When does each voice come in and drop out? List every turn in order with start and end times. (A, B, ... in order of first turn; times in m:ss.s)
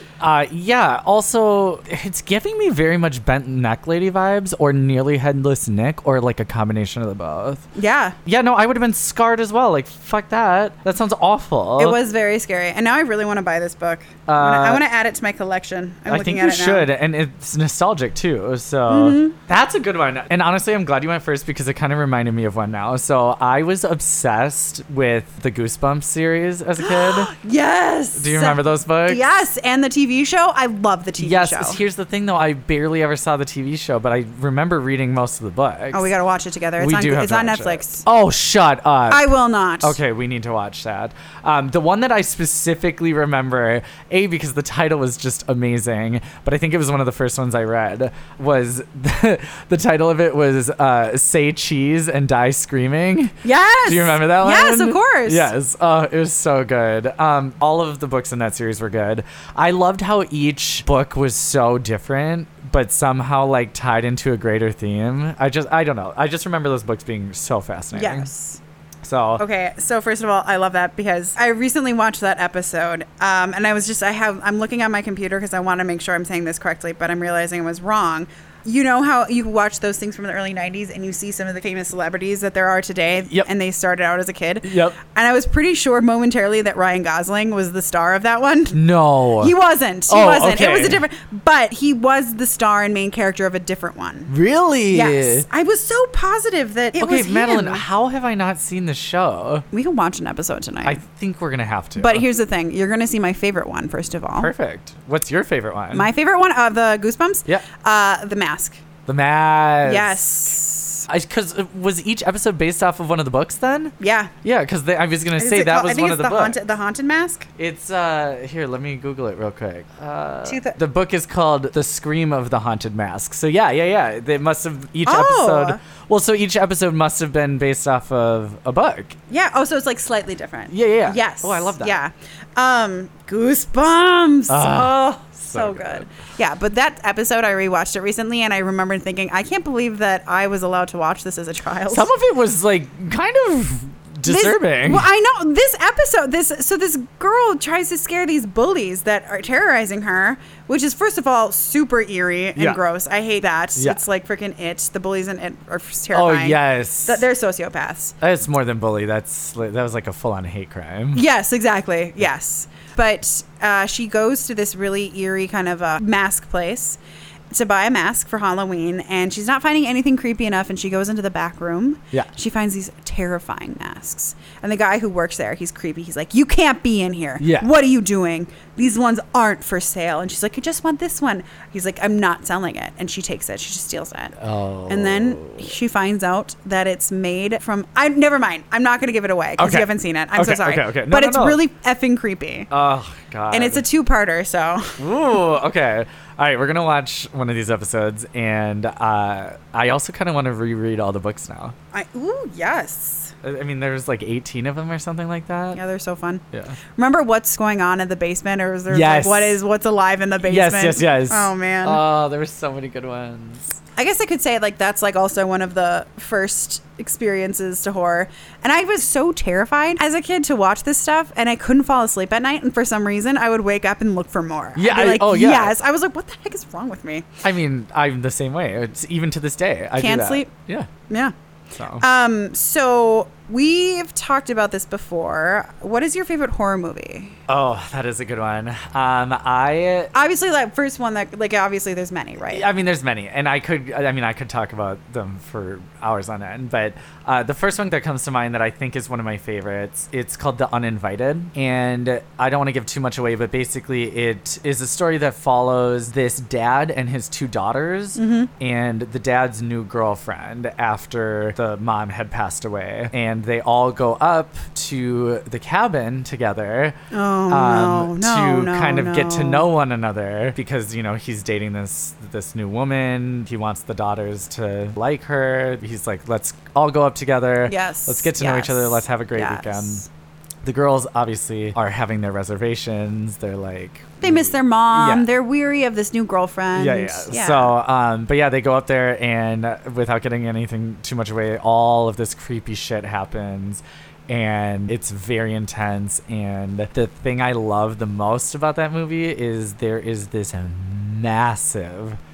0:00.2-0:07.7 A
0:07.8-0:08.2 B
0:08.2-0:12.0 A
0:11.8-0:16.9 B
0:14.3-0:14.8 A
0:16.1-0:27.3 A
0:18.9-0:19.4 B
0:26.8-0:31.8 B
0:28.2-0:29.2 A
0:31.2-0:36.1 A
0:35.9-0:38.0 B
0:36.8-1:08.3 A
0:39.1-0:40.0 B
0:53.4-0:55.5 B
1:07.9-1:08.6 B
1:09.0-1:09.4 A
1:09.4-1:28.8 B
1:24.6-1:25.0 A
1:28.7-1:29.5 A
1:29.4-1:34.3 B
1:30.1-1:31.0 A
1:34.3-1:35.5 A
1:34.9-1:37.9 B
1:37.0-1:39.7 A
1:39.7-1:41.0 B
1:40.8-1:42.2 A
1:42.0-1:44.5 B
1:44.4-1:46.1 A
1:45.9-1:48.8 B
1:49.1-1:50.3 A
1:49.8-1:51.1 B
1:51.1-1:56.6 A
1:54.0-1:54.3 B
1:55.4-1:57.5 B
1:57.6-2:09.2 A
2:00.4-2:00.8 B
2:05.0-2:05.8 B
2:09.3-2:22.1 B
2:10.7-2:12.0 A
2:14.5-2:16.1 A
2:21.9-2:25.1 A
2:24.2-2:38.2 B
2:33.8-2:34.0 A
2:36.1-2:37.3 A
2:38.2-2:41.2 A
2:41.1-2:47.0 B
2:47.5-3:04.4 B
2:57.4-2:57.7 A
3:04.4-3:05.7 A
3:04.9-3:12.7 B
3:09.6-3:11.6 A
3:12.7-3:13.8 A
3:13.5-3:15.0 B
3:15.0-3:21.8 A
3:21.9-3:23.3 B
3:23.4-3:25.8 A
3:25.7-3:26.4 B
3:26.5-3:26.8 A
3:27.0-3:32.0 B
3:28.9-3:29.6 A
3:30.4-3:33.8 A
3:34.0-3:47.4 B
3:44.8-3:45.8 A
3:47.4-3:50.9 A
3:50.0-3:50.5 B
3:51.1-3:51.3 B
3:51.8-3:52.0 A
3:52.0-3:57.4 B
3:57.5-4:00.2 A
4:00.1-4:02.7 B
4:02.5-4:27.0 A
4:18.2-4:18.5 B
4:27.1-4:29.7 B
4:27.5-4:40.0 A
4:37.7-4:40.1 B
4:40.6-4:45.3 A
4:44.2-4:47.8 B
4:46.7-5:02.2 A